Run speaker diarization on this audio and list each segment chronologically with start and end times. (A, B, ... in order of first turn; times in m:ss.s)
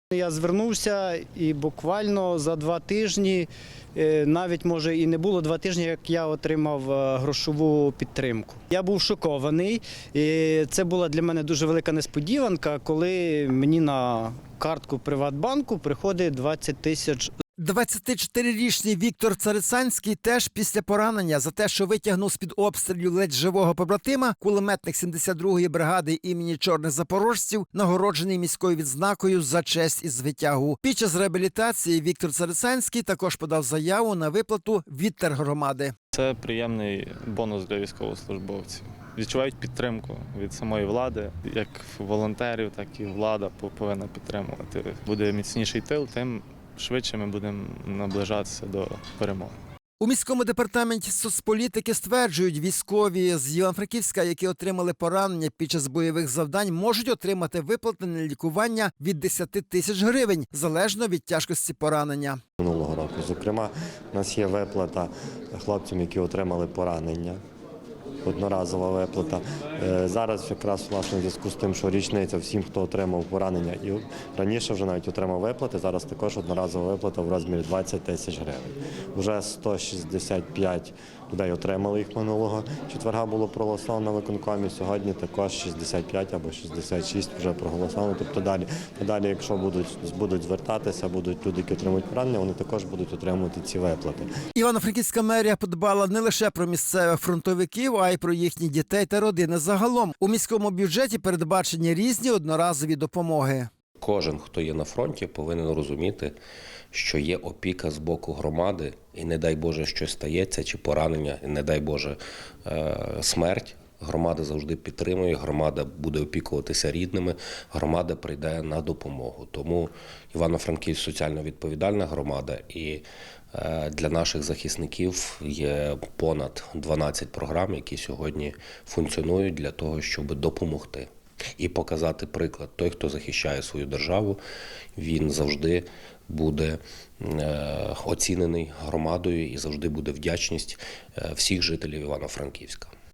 0:00.1-0:17.3 A
0:17.6-0:35.9 B
0:36.2-0:49.5 C
0:50.0-1:02.4 B
1:02.6-1:07.4 D
1:08.2-1:34.3 D
1:34.5-1:43.7 B
1:44.0-1:46.4 E
1:46.9-2:14.4 E
2:15.0-2:22.9 E